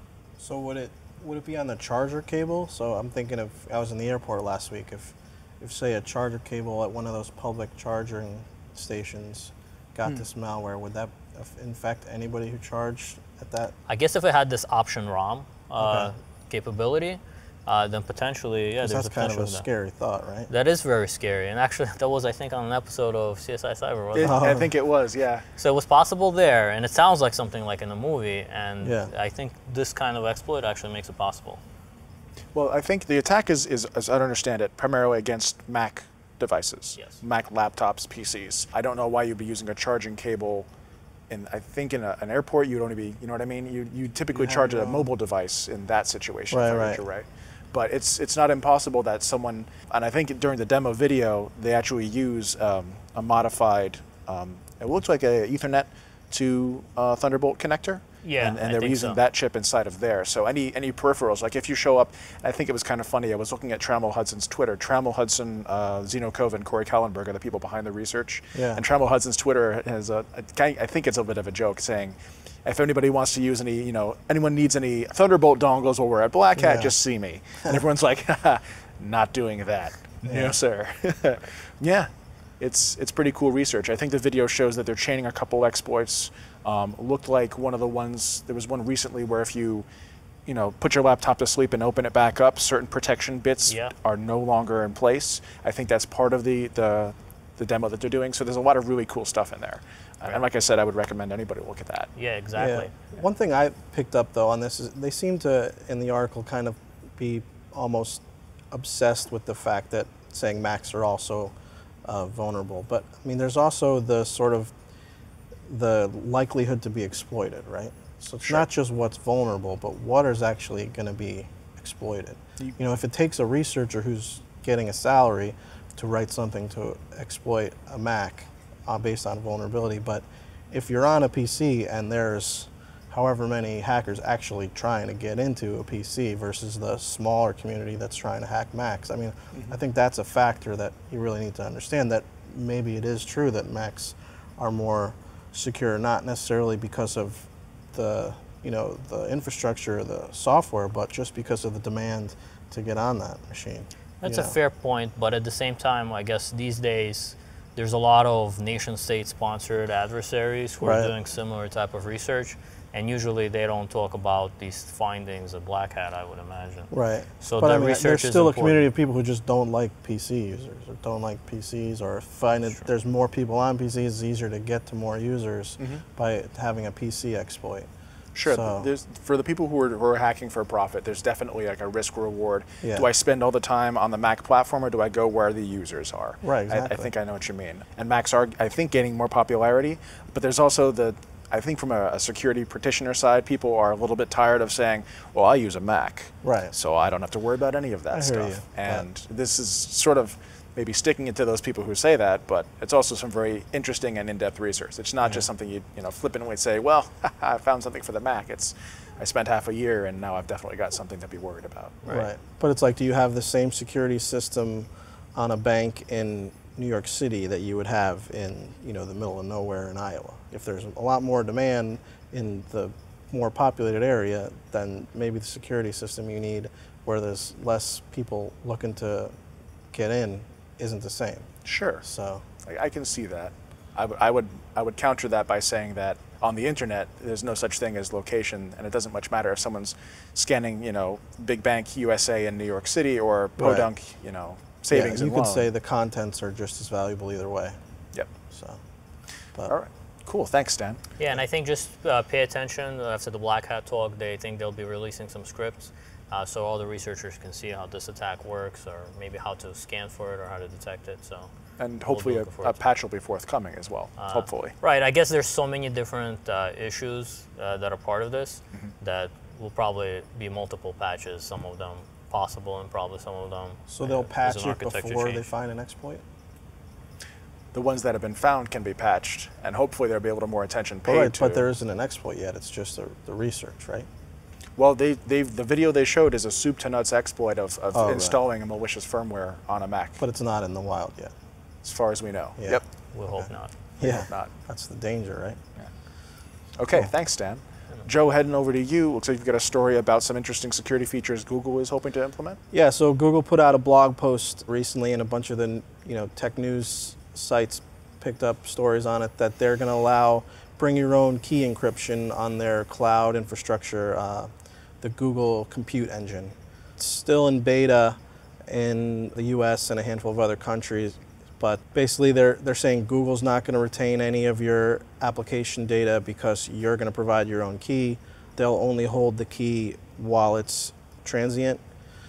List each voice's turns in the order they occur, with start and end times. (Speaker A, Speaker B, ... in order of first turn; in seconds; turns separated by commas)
Speaker A: 0.4-13.7, Speaker B: 13.9-19.7, Speaker A: 15.8-16.1, Speaker A: 18.8-20.5, Speaker B: 20.5-24.4, Speaker C: 24.1-25.4, Speaker A: 24.2-24.7, Speaker B: 25.6-31.6, Speaker A: 28.8-29.1, Speaker C: 32.5-40.7, Speaker C: 41.3-82.1, Speaker A: 44.3-45.1, Speaker A: 46.5-47.0, Speaker B: 58.2-59.2, Speaker A: 68.5-68.8, Speaker A: 76.6-76.9, Speaker A: 80.3-80.6, Speaker C: 82.6-89.9, Speaker C: 90.5-102.1, Speaker B: 93.7-93.9, Speaker B: 102.2-102.9, Speaker A: 102.6-111.5, Speaker A: 112.0-114.7, Speaker A: 115.7-154.6, Speaker B: 154.2-166.9, Speaker A: 160.8-161.1, Speaker A: 166.9-177.9, Speaker B: 167.4-168.8, Speaker C: 178.3-212.0, Speaker A: 178.4-178.9, Speaker A: 182.8-183.1, Speaker A: 186.4-187.1, Speaker A: 196.4-196.7, Speaker A: 198.1-199.1, Speaker B: 212.0-212.3, Speaker A: 212.1-229.3, Speaker A: 229.9-232.4, Speaker C: 231.7-232.0, Speaker C: 232.6-245.7, Speaker A: 243.6-243.9, Speaker A: 244.9-247.8, Speaker A: 248.5-248.8, Speaker C: 249.7-251.0, Speaker B: 251.2-261.5, Speaker C: 261.8-264.7, Speaker B: 262.1-262.8, Speaker B: 264.2-275.4, Speaker A: 273.9-276.2, Speaker C: 277.7-281.6, Speaker A: 281.1-284.1, Speaker C: 284.8-290.2, Speaker A: 287.9-288.4, Speaker A: 290.2-291.3, Speaker C: 291.8-292.9, Speaker B: 293.1-293.8, Speaker C: 294.0-294.5, Speaker A: 294.0-295.6, Speaker C: 296.8-302.6, Speaker A: 302.7-314.5, Speaker A: 315.0-318.2, Speaker A: 318.7-331.8